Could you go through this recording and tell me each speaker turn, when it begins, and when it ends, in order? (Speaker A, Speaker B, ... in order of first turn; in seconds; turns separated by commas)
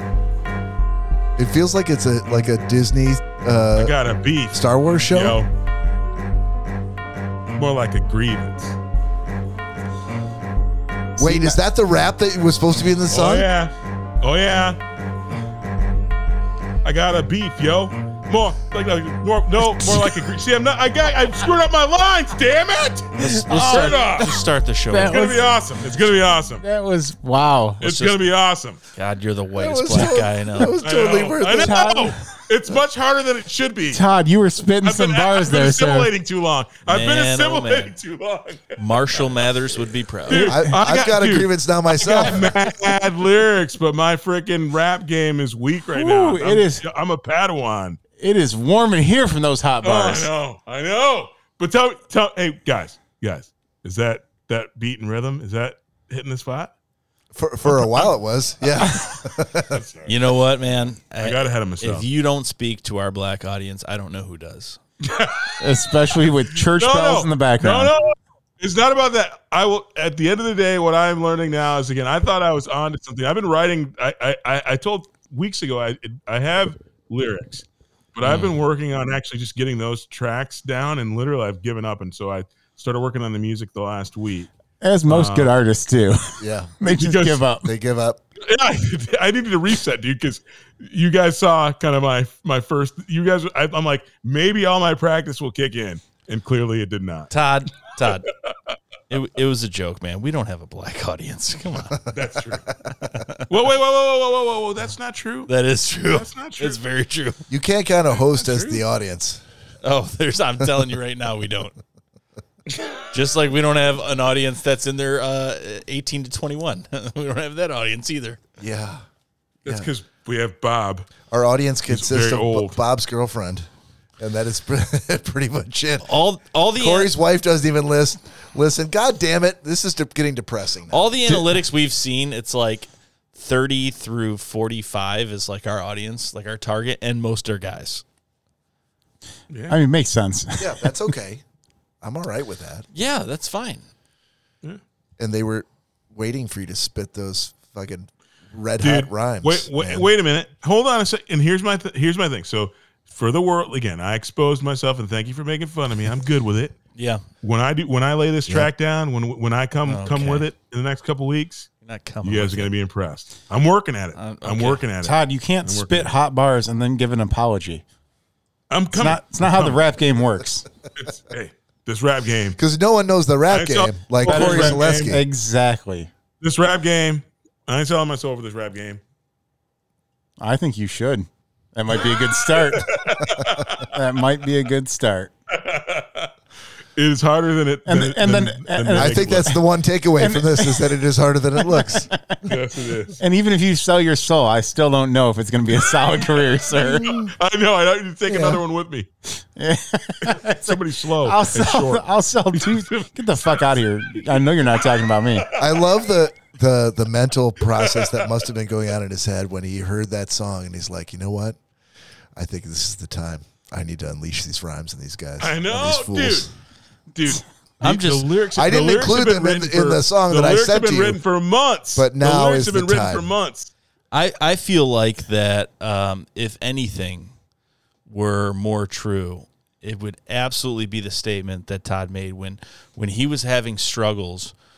Speaker A: 1.4-3.9, Speaker B: 3.8-5.5, Speaker A: 4.5-5.4, Speaker B: 7.5-8.8, Speaker C: 11.2-11.6, Speaker A: 11.2-13.5, Speaker B: 13.1-14.8, Speaker B: 16.8-24.3, Speaker C: 19.6-20.2, Speaker D: 23.2-25.3, Speaker C: 23.2-24.2, Speaker C: 24.9-25.5, Speaker B: 25.0-26.6, Speaker C: 26.6-28.1, Speaker B: 27.8-28.8, Speaker D: 28.9-30.7, Speaker A: 29.6-32.1, Speaker B: 30.8-34.0, Speaker C: 31.4-32.2, Speaker C: 33.9-36.1, Speaker B: 34.8-39.5, Speaker D: 36.9-37.9, Speaker D: 38.8-40.5, Speaker B: 40.3-48.0, Speaker A: 40.3-42.6, Speaker C: 45.9-46.9, Speaker C: 48.2-50.3, Speaker B: 49.8-56.7, Speaker A: 57.4-59.8, Speaker B: 57.7-58.1, Speaker B: 59.7-60.1, Speaker D: 60.1-64.8, Speaker B: 61.2-62.1, Speaker B: 65.1-65.7, Speaker C: 65.6-68.0, Speaker B: 66.7-84.5, Speaker C: 84.8-87.7, Speaker B: 85.1-85.5, Speaker A: 86.4-86.7, Speaker B: 86.9-87.4, Speaker A: 87.6-88.2, Speaker B: 88.5-97.3, Speaker D: 97.3-98.3, Speaker D: 99.1-102.0, Speaker B: 102.1-102.7, Speaker D: 103.0-103.5, Speaker B: 103.5-105.5, Speaker D: 105.5-107.4, Speaker B: 106.0-106.8, Speaker A: 107.5-109.4, Speaker B: 108.1-108.8, Speaker D: 109.8-111.8, Speaker D: 113.1-118.4, Speaker A: 118.6-119.0, Speaker B: 119.7-121.1, Speaker A: 121.3-123.7, Speaker B: 121.9-122.8, Speaker A: 124.2-126.1, Speaker D: 126.0-127.1, Speaker A: 126.8-131.6, Speaker D: 130.9-138.0, Speaker B: 139.5-139.8, Speaker C: 139.7-140.9, Speaker A: 140.6-141.4, Speaker A: 142.0-142.9, Speaker D: 142.9-143.9, Speaker A: 145.2-150.1, Speaker B: 148.8-156.8, Speaker D: 156.9-157.2, Speaker B: 157.4-161.7, Speaker D: 159.8-160.5, Speaker D: 161.8-162.7, Speaker B: 162.2-166.1, Speaker D: 164.2-164.8, Speaker C: 165.0-167.8, Speaker B: 168.7-169.8, Speaker C: 168.9-170.7, Speaker B: 171.0-172.6, Speaker A: 172.6-175.2, Speaker B: 173.5-175.2, Speaker C: 174.2-176.1, Speaker B: 176.4-179.0, Speaker C: 180.4-183.1, Speaker B: 182.5-183.9, Speaker C: 183.9-185.3, Speaker B: 185.5-186.3, Speaker B: 187.0-189.6, Speaker C: 187.9-189.6, Speaker A: 189.0-192.5, Speaker C: 190.2-191.0, Speaker C: 191.6-192.4, Speaker B: 192.5-193.2, Speaker C: 193.2-197.2, Speaker A: 196.8-197.3, Speaker B: 197.3-199.1, Speaker A: 198.3-198.6, Speaker C: 199.6-205.5, Speaker B: 200.3-203.7, Speaker B: 205.6-205.9, Speaker A: 205.6-211.6, Speaker B: 207.8-208.3, Speaker A: 212.4-216.5, Speaker B: 215.4-216.5, Speaker B: 217.1-223.7, Speaker D: 217.8-218.3, Speaker A: 218.6-221.2, Speaker A: 221.9-223.3, Speaker D: 224.1-227.3, Speaker D: 228.1-234.5